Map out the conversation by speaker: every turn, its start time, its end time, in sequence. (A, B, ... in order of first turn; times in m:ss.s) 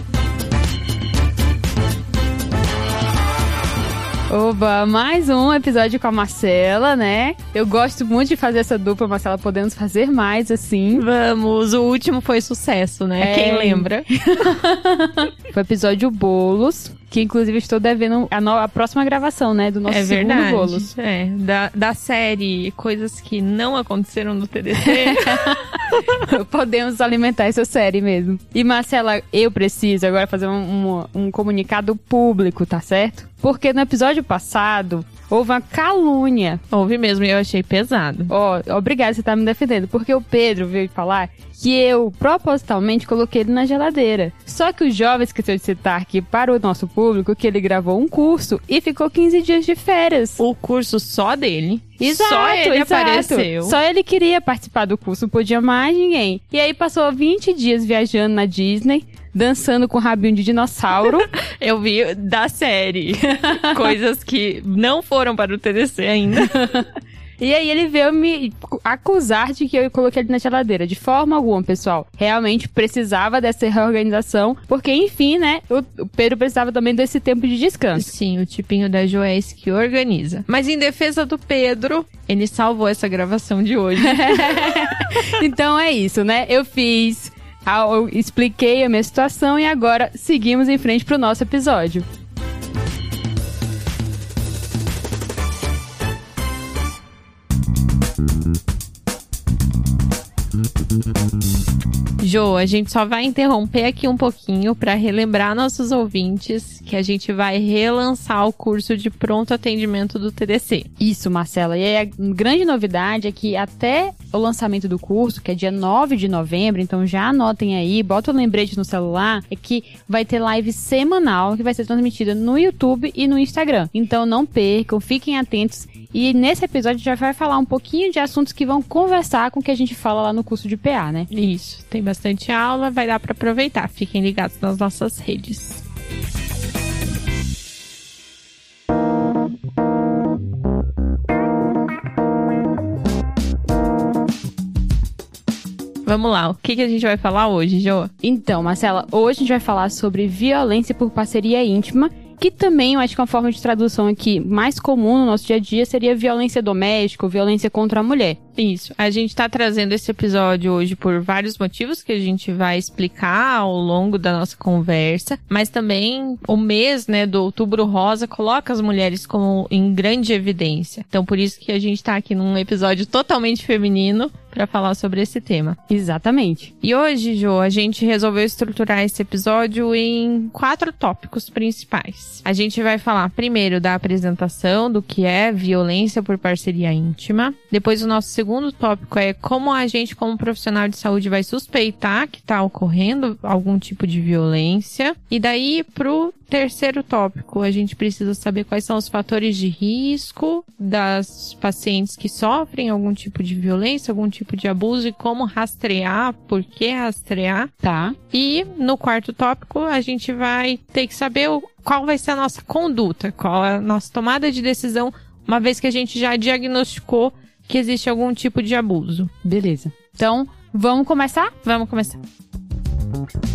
0:04.3-0:11.0 A
0:10.9-0:14.1 B
0:13.2-0:20.9 A
0:19.9-0:25.6 B
0:24.9-0:36.6 A
0:36.7-0:38.3 B
0:38.3-0:50.4 A
0:50.4-0:53.8 B
0:52.0-1:01.3 A
1:01.0-1:06.5 B
1:03.2-1:03.9 A
1:06.4-1:18.1 A
1:17.9-1:25.2 B
1:24.0-1:32.0 A
1:42.2-1:50.9 B
1:51.0-2:11.3 A
2:11.3-2:15.8 B
2:26.0-2:28.1 B
2:28.2-2:38.4 A
2:38.6-2:55.8 B
2:55.9-2:56.7 A
2:56.8-3:27.7 B
3:27.8-3:28.2 A
3:28.3-3:39.3 B
3:39.4-3:41.5 A
3:41.6-3:42.2 B